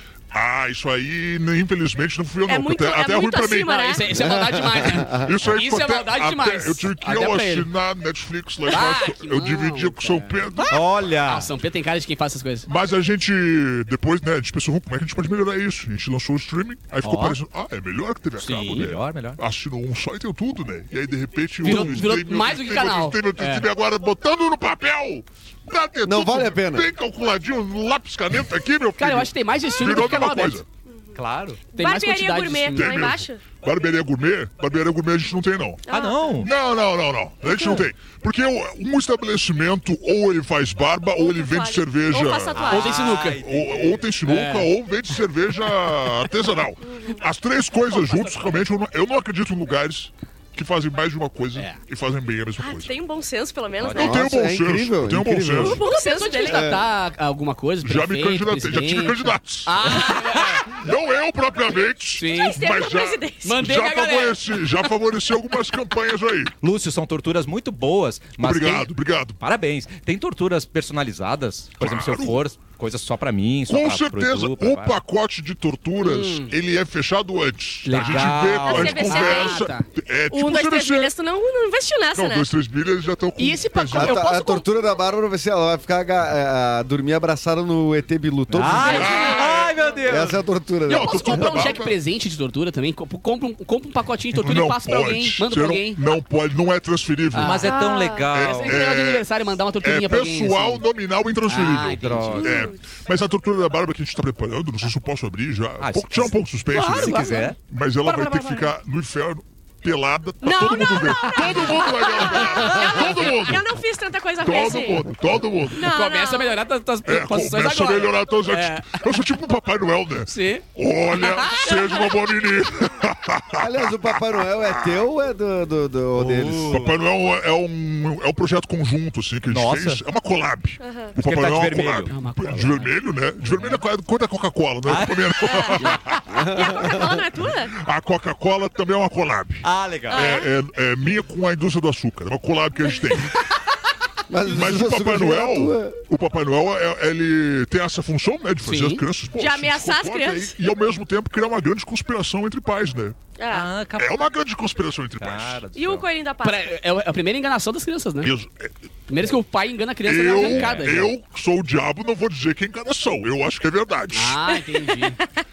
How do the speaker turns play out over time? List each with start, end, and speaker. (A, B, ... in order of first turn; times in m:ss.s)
0:00.3-0:04.0 A
0:02.5-0:04.0 B
0:03.6-0:07.7 C
0:04.1-0:05.3 D
0:04.8-0:10.8 A
0:08.7-0:10.7 C
0:10.6-0:11.5 E
0:11.2-0:12.7 C
0:12.7-0:30.6 A
0:17.0-0:17.4 E
0:18.4-0:18.9 C
0:18.4-0:19.4 E
0:21.6-0:23.6 C
0:21.6-0:22.0 E
0:26.0-0:26.9 D
0:29.0-0:30.6 C
0:30.9-0:31.2 B
0:31.2-0:31.6 E
0:31.7-0:33.4 B
0:31.7-0:33.0 C
0:32.7-0:35.8 A
0:35.9-0:36.5 B
0:35.9-0:36.5 E
0:36.4-0:42.7 A
0:37.5-0:37.8 B
0:41.2-0:43.2 B
0:42.6-0:44.0 E
0:42.6-0:43.4 C
0:43.3-0:52.9 A
0:44.2-0:44.7 C
0:46.8-0:47.2 B
0:47.9-0:48.6 C
0:52.6-0:54.2 B
0:53.8-0:54.2 E
0:53.9-0:55.8 D
0:54.0-0:55.8 A
0:55.6-0:56.7 B
0:55.7-1:00.7 C
0:56.4-0:56.8 D
0:57.8-1:06.5 A
1:02.2-1:02.6 C
1:02.3-1:03.6 B
1:03.4-1:04.4 C
1:06.6-1:15.0 E
1:08.4-1:09.4 A
1:11.8-1:12.4 A
1:13.7-1:21.1 A
1:16.0-1:16.5 C
1:17.8-1:19.9 C
1:17.9-1:19.2 E
1:18.6-1:19.6 B
1:20.3-1:22.5 B
1:22.1-1:24.2 A
1:23.4-1:24.6 C
1:23.9-1:29.1 D
1:28.5-1:30.4 E
1:28.7-1:30.0 B
1:28.8-1:29.6 A
1:28.8-1:29.3 C
1:30.0-1:31.7 D
1:30.9-1:32.0 A
1:30.9-1:36.0 C
1:34.3-1:37.8 A
1:37.3-1:37.8 C
1:37.4-1:38.8 E
1:37.6-1:38.3 B
1:38.3-1:53.7 A
1:38.5-1:40.8 C
1:41.4-1:42.5 C
1:41.9-1:42.6 E
1:42.4-1:42.8 B
1:45.8-1:47.6 E
1:46.7-1:47.5 C
1:48.0-1:48.7 C
1:50.4-1:55.1 B
1:54.4-1:55.9 A
1:55.7-1:56.6 B
1:55.7-1:59.0 C
1:57.0-2:04.9 A
2:00.2-2:01.8 C
2:01.7-2:02.2 B
2:03.6-2:06.8 D
2:06.2-2:07.0 E
2:06.7-2:16.2 A
2:09.5-2:10.0 E
2:10.8-2:11.1 B
2:11.2-2:12.1 E
2:12.1-2:12.9 C
2:14.8-2:16.2 E
2:15.5-2:15.8 B
2:16.3-2:17.1 D
2:16.5-2:17.7 B
2:17.7-2:23.5 A
2:19.6-2:20.4 E
2:20.1-2:20.5 B
2:24.3-2:26.0 D
2:24.4-2:33.2 A
2:28.6-2:29.0 C
2:29.4-2:30.5 B
2:33.4-2:33.7 B
2:33.5-2:34.2 E
2:33.9-2:35.6 A
2:35.2-2:36.1 E
2:35.7-2:36.6 B
2:36.4-2:38.3 C
2:38.2-2:38.7 A
2:39.1-2:41.1 C
2:40.0-2:44.4 A
2:40.4-2:41.1 E
2:44.1-2:45.2 C
2:44.7-2:45.2 B